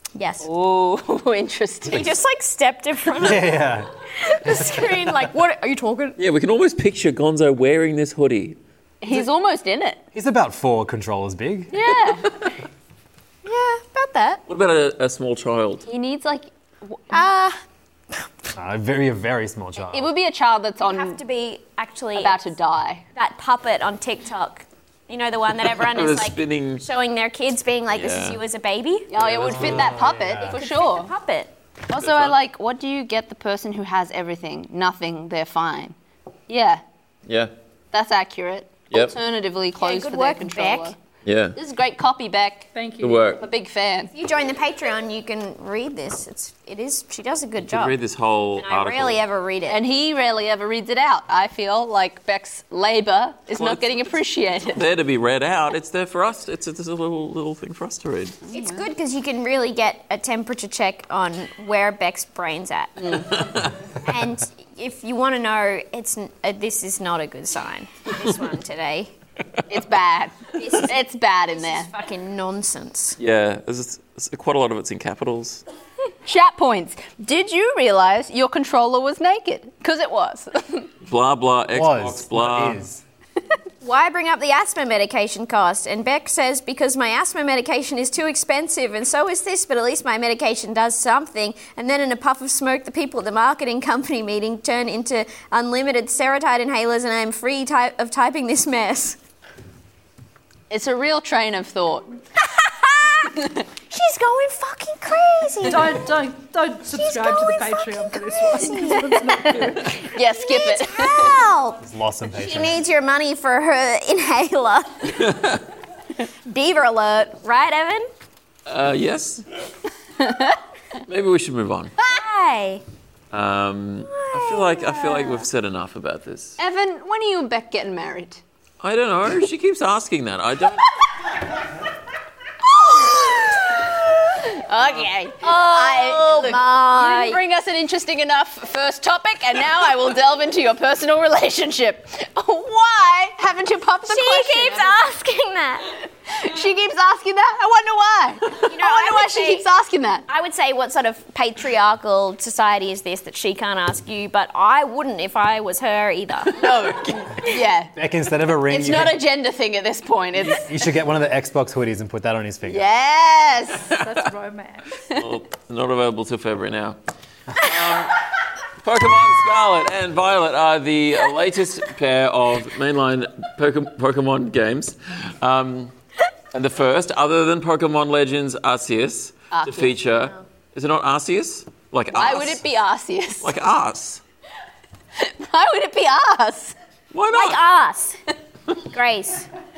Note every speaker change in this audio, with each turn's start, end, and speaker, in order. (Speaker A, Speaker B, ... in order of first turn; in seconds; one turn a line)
Speaker A: 0.1-0.5
Speaker B: 0.4-2.2
Speaker A: 1.9-3.6
Speaker C: 3.2-3.9
Speaker A: 4.2-6.2
Speaker C: 4.4-5.1
Speaker D: 6.2-8.6
Speaker B: 9.0-10.0
Speaker C: 10.1-11.8
Speaker B: 11.7-12.5
Speaker A: 13.4-14.4
Speaker D: 14.5-15.8
Speaker B: 15.8-17.1
Speaker A: 17.1-17.6
Speaker C: 18.5-20.1
Speaker B: 19.9-21.2
Speaker A: 20.8-22.5
Speaker B: 22.1-23.0
Speaker A: 23.1-29.1
Speaker D: 25.6-26.8
Speaker D: 27.9-28.4
Speaker B: 29.1-31.1
Speaker D: 29.2-29.9
Speaker C: 29.3-30.6
Speaker A: 30.5-31.5
Speaker B: 31.9-35.9
Speaker D: 32.0-32.4
Speaker B: 36.5-36.8
Speaker D: 37.2-37.5
Speaker B: 37.9-41.0
Speaker D: 38.9-39.2
Speaker A: 39.8-40.9
Speaker D: 41.2-41.6
Speaker B: 41.5-42.7
Speaker E: 42.7-43.4
Speaker D: 43.0-43.5
Speaker B: 43.4-44.1
Speaker A: 44.1-47.9
Speaker D: 47.6-49.2
Speaker A: 48.5-49.8
Speaker B: 49.7-54.8
Speaker D: 53.5-54.2
Speaker D: 54.7-58.4
Speaker B: 58.5-58.8
Speaker A: 58.5-63.3
Speaker B: 63.0-63.3
Speaker A: 64.0-69.1
Speaker B: 69.7-71.9
Speaker A: 70.6-71.0
Speaker A: 71.5-73.2
Speaker D: 73.2-75.6
Speaker B: 76.2-80.9
Speaker D: 81.0-82.8
Speaker C: 81.7-83.0
Speaker A: 83.8-99.2
Speaker B: 100.7-102.2
Speaker A: 102.5-103.3
Speaker A: 103.9-106.0
Speaker E: 105.7-109.9
Speaker A: 106.9-109.2
Speaker B: 109.3-111.4
Speaker A: 110.3-115.3
Speaker C: 111.8-112.8
Speaker D: 115.2-115.6
Speaker A: 116.5-118.1
Speaker D: 118.7-119.4
Speaker B: 120.2-120.6
Speaker D: 121.1-121.9
Speaker A: 122.1-122.8
Speaker D: 123.3-126.6
Speaker A: 124.1-125.4
Speaker B: 126.6-128.4
Speaker D: 128.8-130.9
Speaker B: 132.6-144.9
Speaker A: 135.4-137.4
Speaker A: 144.1-145.9
Speaker B: 146.3-150.2
Speaker A: 148.7-149.6
Speaker A: 150.3-156.6
Speaker B: 156.5-157.9
Speaker C: 157.9-159.2
Speaker B: 158.7-160.8
Speaker C: 160.4-162.9
Speaker B: 162.7-163.9
Speaker E: 163.9-164.9
Speaker D: 165.2-167.0
Speaker D: 167.5-168.2
Speaker D: 168.8-175.9
Speaker D: 176.5-182.6
Speaker B: 179.5-180.0
Speaker B: 182.1-183.5
Speaker D: 183.4-184.2
Speaker B: 185.2-186.7
Speaker D: 187.1-187.6
Speaker A: 187.3-188.2
Speaker A: 188.7-189.5